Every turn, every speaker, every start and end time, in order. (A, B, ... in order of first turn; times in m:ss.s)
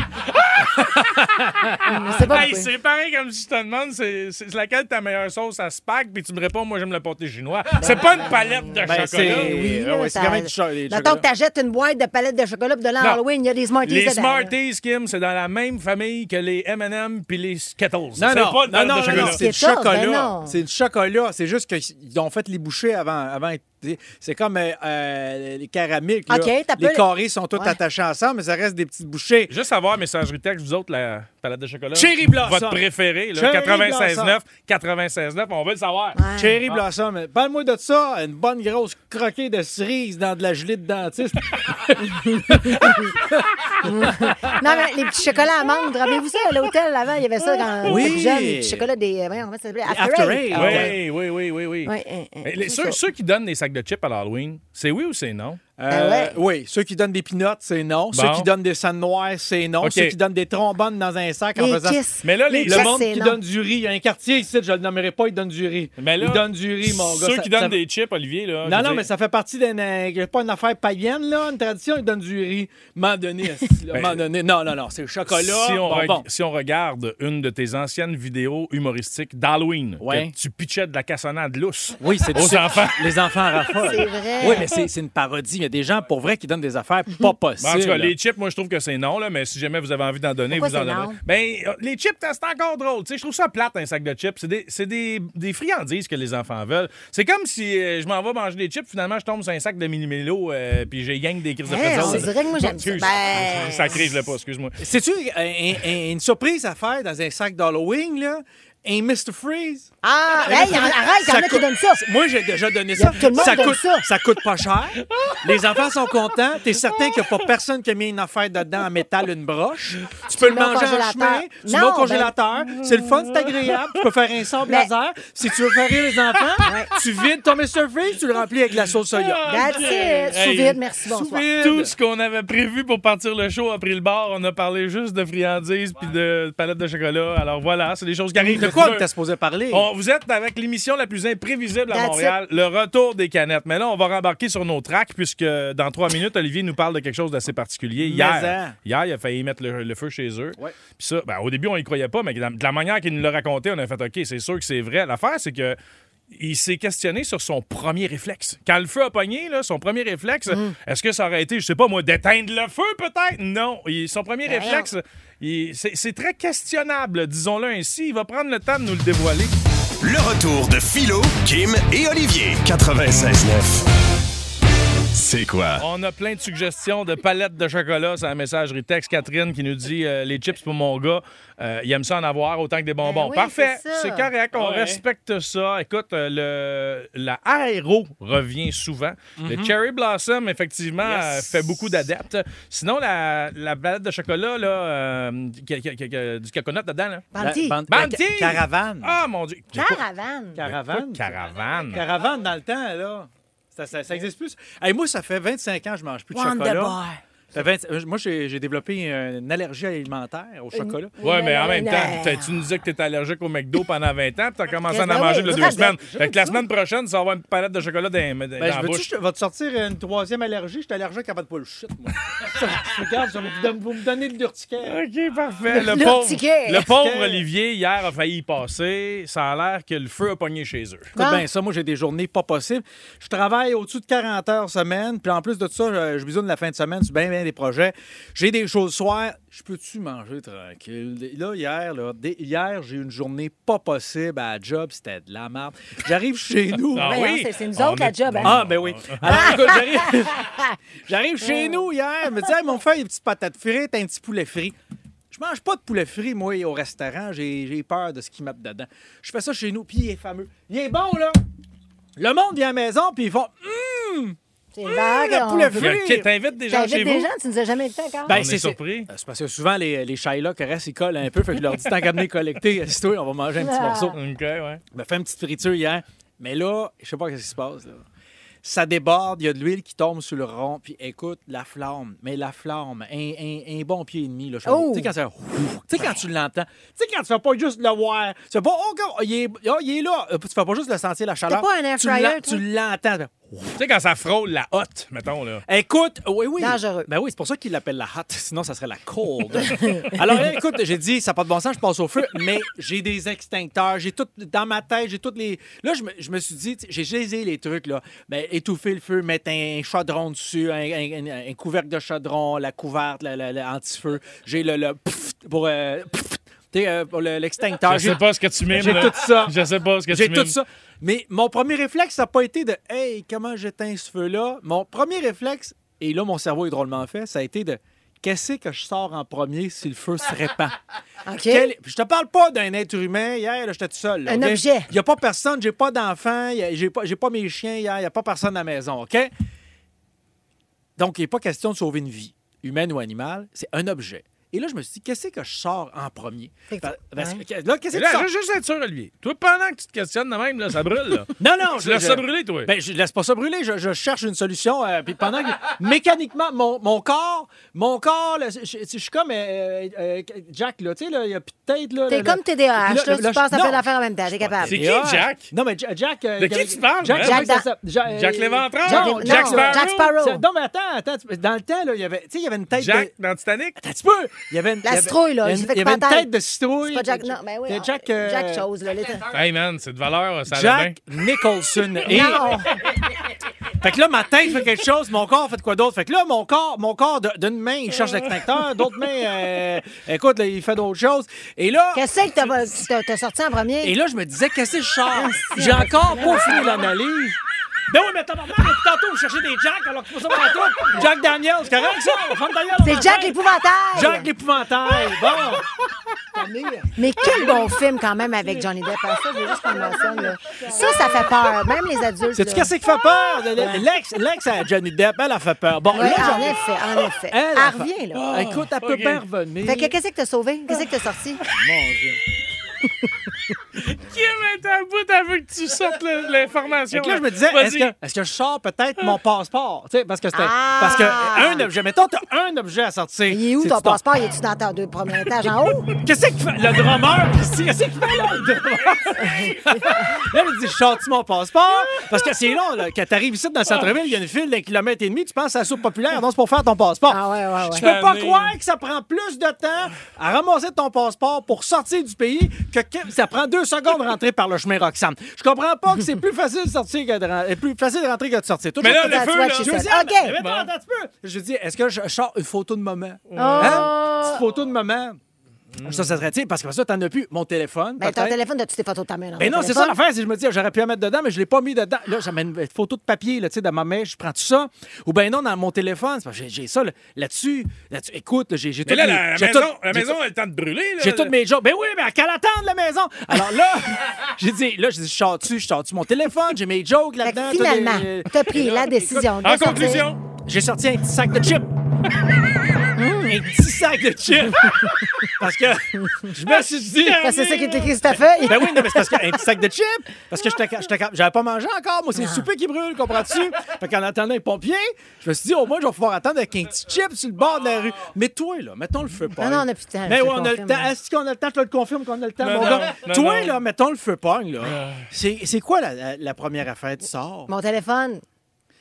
0:00.4-0:09.6 A
0:00.9-0:01.9 B
0:01.8-0:02.7 C
0:07.8-0:14.5 C
0:08.8-0:11.2 B
0:13.8-0:19.4 A
0:18.2-0:29.5 B
0:19.1-0:20.6 C
0:26.3-0:27.8 C
0:29.5-0:36.2 A
0:31.9-0:32.8 B
0:33.3-0:34.4 B
0:36.2-0:36.6 C
0:36.4-0:44.6 B
0:42.2-0:43.1 C
0:43.8-0:51.0 C
0:47.6-0:48.1 A
0:47.8-0:48.9 B
0:49.8-0:51.0 B
0:50.6-0:55.6 A
0:51.8-0:53.0 C
0:55.8-1:02.0 B
0:55.9-0:56.3 C
0:58.1-0:58.5 A
0:59.8-1:00.2 A
1:01.6-1:03.4 C
1:02.2-1:03.0 A
1:02.6-1:07.8 B
1:06.0-1:09.0 A
1:08.6-1:16.2 B
1:13.9-1:14.2 A
1:15.3-1:24.0 A
1:20.0-1:20.3 B
1:22.0-1:28.1 B
1:23.8-1:24.7 C
1:27.6-1:44.8 A
1:30.5-1:31.2 C
1:41.6-1:44.0 C
1:41.9-1:42.3 B
1:44.8-1:49.9 B
1:50.0-1:52.0 C
1:50.4-2:09.9 B
1:53.0-1:54.1 C
1:55.0-1:55.9 A
1:56.9-1:57.5 A
2:00.4-2:02.3 C
2:02.8-2:04.0 A
2:06.3-2:07.0 A
2:06.6-2:06.9 C
2:09.1-2:10.8 A
2:09.4-2:11.4 C
2:11.0-2:11.9 B
2:11.6-2:19.0 A
2:18.4-2:19.9 B
2:19.7-2:35.8 A
2:21.9-2:22.3 C
2:28.0-2:28.8 B
2:36.3-2:49.6 A
2:40.5-2:40.7 C
2:44.4-2:44.9 C
2:50.0-2:53.8 D
2:55.1-2:55.8 D
2:55.8-3:17.3 A
3:03.0-3:04.3 C
3:04.5-3:05.0 B
3:09.4-3:09.7 B
3:11.0-3:12.0 B
3:17.3-3:17.8 C
3:17.4-3:19.2 B
3:17.9-3:20.0 A
3:19.7-3:20.6 C
3:20.6-3:21.3 B
3:20.6-3:22.0 A
3:21.9-3:27.0 B
3:26.3-3:27.2 C
3:27.5-3:31.1 B
3:30.7-3:32.5 C
3:31.2-3:39.1 A
3:34.9-3:35.9 C
3:35.2-3:36.6 B
3:38.6-3:45.0 B
3:44.8-3:51.1 A
3:45.7-3:46.9 C
3:46.9-3:47.4 B
3:51.1-4:07.2 B
3:51.2-3:51.4 C
4:06.9-4:09.6 A
4:07.0-4:08.6 C
4:08.4-4:10.4 B
4:09.3-4:10.7 C
4:11.1-4:14.8 B
4:11.4-4:11.8 C
4:15.3-4:21.4 B
4:22.2-4:26.3 B
4:24.7-4:25.9 C
4:25.8-4:27.3 A
4:26.7-4:28.3 C
4:28.2-4:34.2 B
4:28.3-4:29.1 A
4:33.6-4:34.2 C
4:34.1-4:34.8 A
4:34.9-4:38.0 B
4:38.6-4:53.8 B
4:44.6-4:45.1 C
4:51.5-4:52.6 C
4:53.8-4:55.6 A
4:55.7-5:19.6 B
4:56.6-4:57.1 C
5:17.8-5:20.6 A
5:20.1-5:30.8 B
5:31.2-5:31.7 C
5:31.5-5:39.3 B
5:34.2-5:34.9 C
5:41.0-5:48.3 B
5:46.7-5:47.4 C
5:47.9-5:52.7 A
5:51.4-6:13.1 B
6:02.1-6:04.8 C
6:04.6-6:05.5 A
6:06.4-6:07.5 A
6:07.2-6:07.7 C
6:08.1-6:10.1 A
6:08.8-6:10.4 C
6:12.7-6:13.8 A
6:13.8-6:18.7 B
6:14.8-6:16.3 C
6:16.8-6:19.3 C
6:19.3-6:21.0 A
6:20.5-6:22.6 B
6:22.0-6:22.7 C
6:23.8-6:32.0 B
6:31.9-6:33.9 C
6:33.8-6:43.4 B
6:35.1-6:36.9 C
6:42.8-6:44.3 C
6:43.9-6:45.6 B
6:46.3-6:47.8 B
6:47.0-6:52.7 C
6:48.4-6:48.7 B
6:49.4-6:51.3 B
6:52.3-6:56.6 B
6:53.6-6:53.8 C
6:55.9-6:58.2 C
6:57.3-7:00.0 B
6:58.1-6:59.2 A
6:59.6-7:01.4 C
7:01.5-7:02.2 B
7:03.8-7:07.9 A
7:06.9-7:14.0 B
7:10.3-7:11.6 C
7:13.3-7:15.9 C
7:16.0-7:45.2 B
7:18.8-7:20.0 A
7:19.2-7:20.0 C
7:27.1-7:27.9 C
7:27.7-7:28.5 A
7:38.8-7:39.8 A
7:38.8-7:40.4 C
7:40.4-7:40.7 A
7:43.3-7:43.9 A
7:43.4-7:44.4 C
7:45.8-7:46.1 A
7:45.8-7:48.4 B
7:48.0-7:50.0 C
7:49.4-8:00.2 B
7:58.8-8:01.3 A
8:01.0-8:09.3 B
8:07.2-8:10.1 C
8:09.4-8:10.2 A
8:10.4-8:11.7 B
8:13.0-8:13.5 C
8:13.2-8:17.3 B
8:17.0-8:18.2 A
8:17.0-8:19.2 C
8:18.4-8:37.5 B
8:22.2-8:22.5 C
8:29.4-8:30.9 C
8:32.4-8:33.6 A
8:34.6-8:35.1 A
8:37.5-8:38.2 C